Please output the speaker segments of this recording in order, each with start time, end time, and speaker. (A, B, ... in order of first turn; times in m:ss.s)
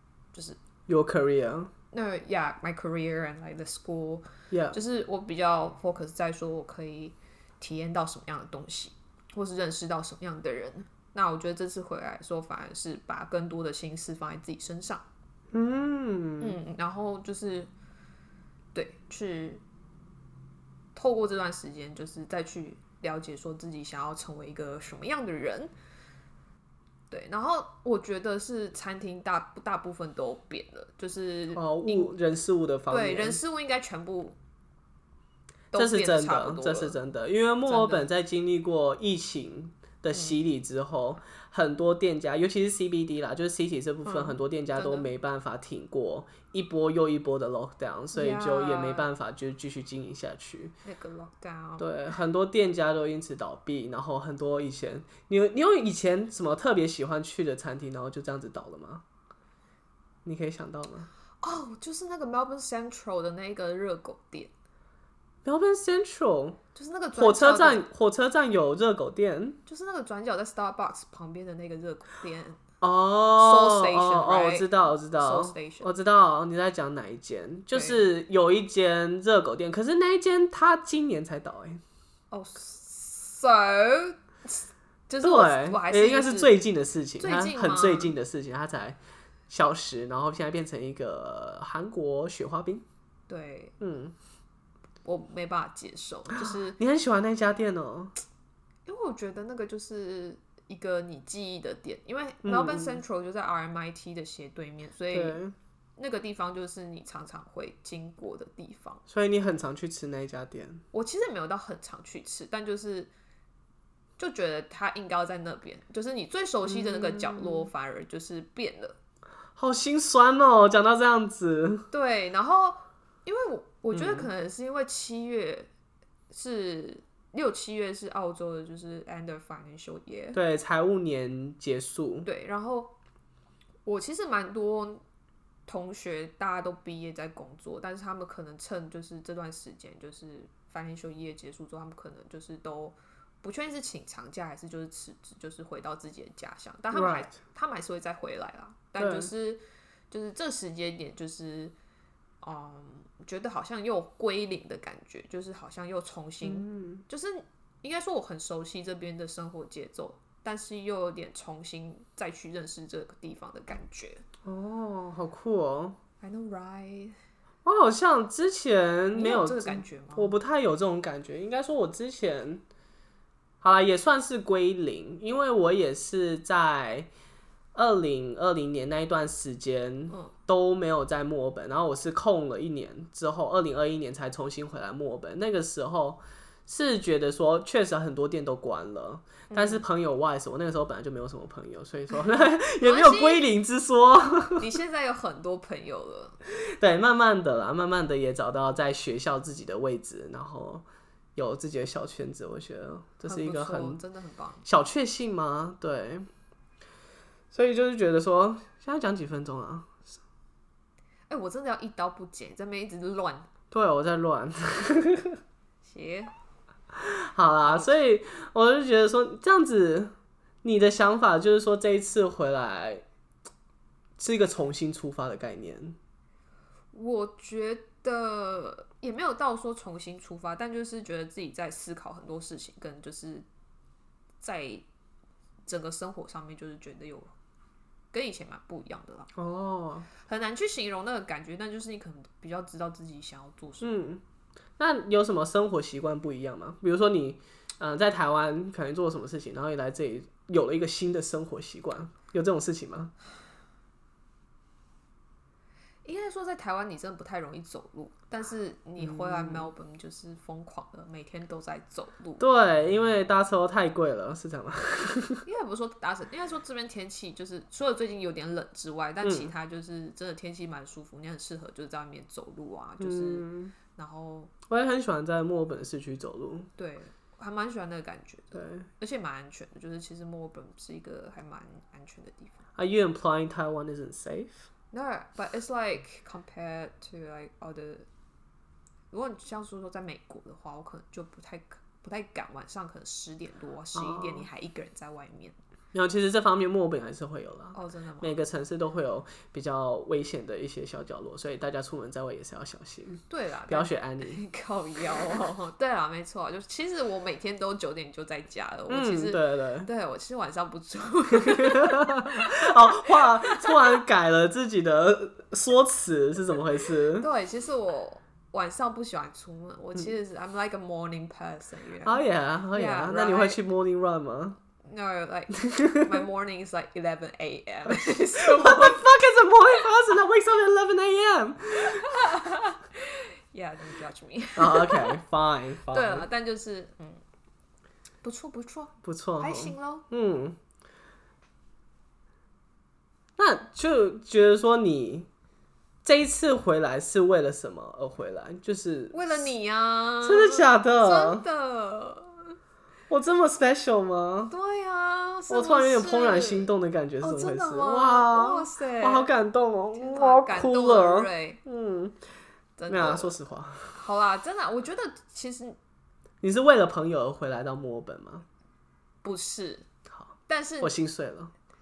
0:00.3-0:00.6 A
0:00.9-0:01.7 B
0:01.9-0:15.0 A
0:04.5-0:04.8 B
0:15.5-0:16.6 B
0:16.4-0:17.7 A
0:18.7-0:19.6 A
0:20.9-0:25.7 A
0:27.1-0:32.1 A
0:31.5-0:33.4 B
0:32.9-0:34.4 A
0:35.7-0:37.0 A
0:35.7-0:50.7 B
0:37.6-0:38.1 A
0:40.1-0:40.4 A
0:44.0-0:45.1 A
0:48.1-0:49.1 A
0:50.8-0:51.9 A
0:51.8-0:59.0 B
1:00.2-1:01.1 B
1:01.4-1:04.5 A
1:05.4-1:06.6 B
1:06.7-1:07.8 A
1:07.2-1:09.6 B
1:09.6-1:12.6 A
1:12.8-1:21.8 B
1:13.4-1:15.9 A
1:17.7-1:18.0 A
1:22.3-1:26.5 A
1:25.2-1:29.0 B
1:27.2-1:28.1 A
1:29.5-1:32.8 B
1:33.3-1:33.7 A
1:33.8-1:34.1 B
1:35.0-1:36.8 A
1:36.8-1:38.1 B
1:38.8-1:45.4 A
1:42.4-1:43.0 B
1:45.1-1:45.5 B
1:46.0-1:49.0 A
1:49.1-1:50.8 B
1:50.9-1:53.1 A
1:54.2-1:59.0 A
1:56.6-1:57.7 B
1:59.6-2:01.9 B
2:01.9-2:05.7 A
2:03.9-2:04.3 B
2:06.3-2:10.4 A
2:10.3-2:12.3 B
2:12.2-2:12.9 A
2:13.8-2:15.0 A
2:15.6-2:31.7 A
2:26.9-2:27.3 B
2:29.0-2:29.3 B
2:32.4-2:44.2 A
2:36.4-2:37.0 B
2:44.4-2:46.0 B
2:46.2-2:47.2 A
2:47.6-2:52.6 B
2:49.1-2:50.3 A
2:53.6-2:57.1 B
2:57.7-3:14.6 B
3:09.5-3:09.8 A
3:12.8-3:13.4 A
3:14.6-3:16.4 A
3:16.8-3:20.8 B
3:21.4-3:24.0 B
3:23.2-3:24.6 A
3:24.6-3:26.3 B
3:27.5-3:30.1 B
3:31.3-3:33.5 A
3:33.7-3:35.4 B
3:35.8-3:36.3 A
3:36.9-3:43.0 B
3:37.6-3:37.9 A
3:44.2-3:46.0 B
3:46.9-3:53.4 A
3:54.4-3:54.8 A
3:55.6-3:57.3 A
3:58.1-3:59.3 A
3:59.3-4:00.1 B
4:00.2-4:03.9 A
4:03.8-4:04.2 B
4:04.8-4:13.1 B
4:16.0-4:22.4 A
4:19.0-4:19.7 B
4:22.4-4:25.4 B
4:25.4-4:34.5 A
4:29.2-4:29.5 B
4:33.0-4:33.7 B
4:34.7-4:36.7 B
4:36.8-4:42.6 A
4:38.5-4:38.9 B
4:42.8-4:44.7 B
4:44.9-4:48.1 A
4:49.1-4:55.6 A
4:53.9-4:54.4 B
4:55.9-5:04.4 B
4:57.7-4:58.3 A
5:03.3-5:14.0 A
5:08.9-5:09.9 B
5:11.3-5:17.3 B
5:17.2-5:23.6 A
5:22.0-5:24.6 B
5:24.8-5:29.0 A
5:25.6-5:26.1 B
5:27.9-5:32.2 B
5:31.8-5:35.2 A
5:34.6-5:36.3 B
5:35.9-5:37.2 A
5:38.2-5:40.0 A
5:39.0-5:40.6 B
5:43.4-5:45.3 B
5:46.0-5:49.5 B
5:49.1-5:52.5 A
5:50.2-5:51.4 B
5:53.1-5:54.5 B
5:54.5-5:59.3 A
5:55.5-6:02.2 B
5:59.9-6:01.6 A
6:02.8-6:03.3 A
6:02.9-6:04.0 B
6:03.9-6:05.8 A
6:06.4-6:08.4 B
6:09.2-6:09.8 A
6:10.1-6:11.5 B
6:10.5-6:10.9 A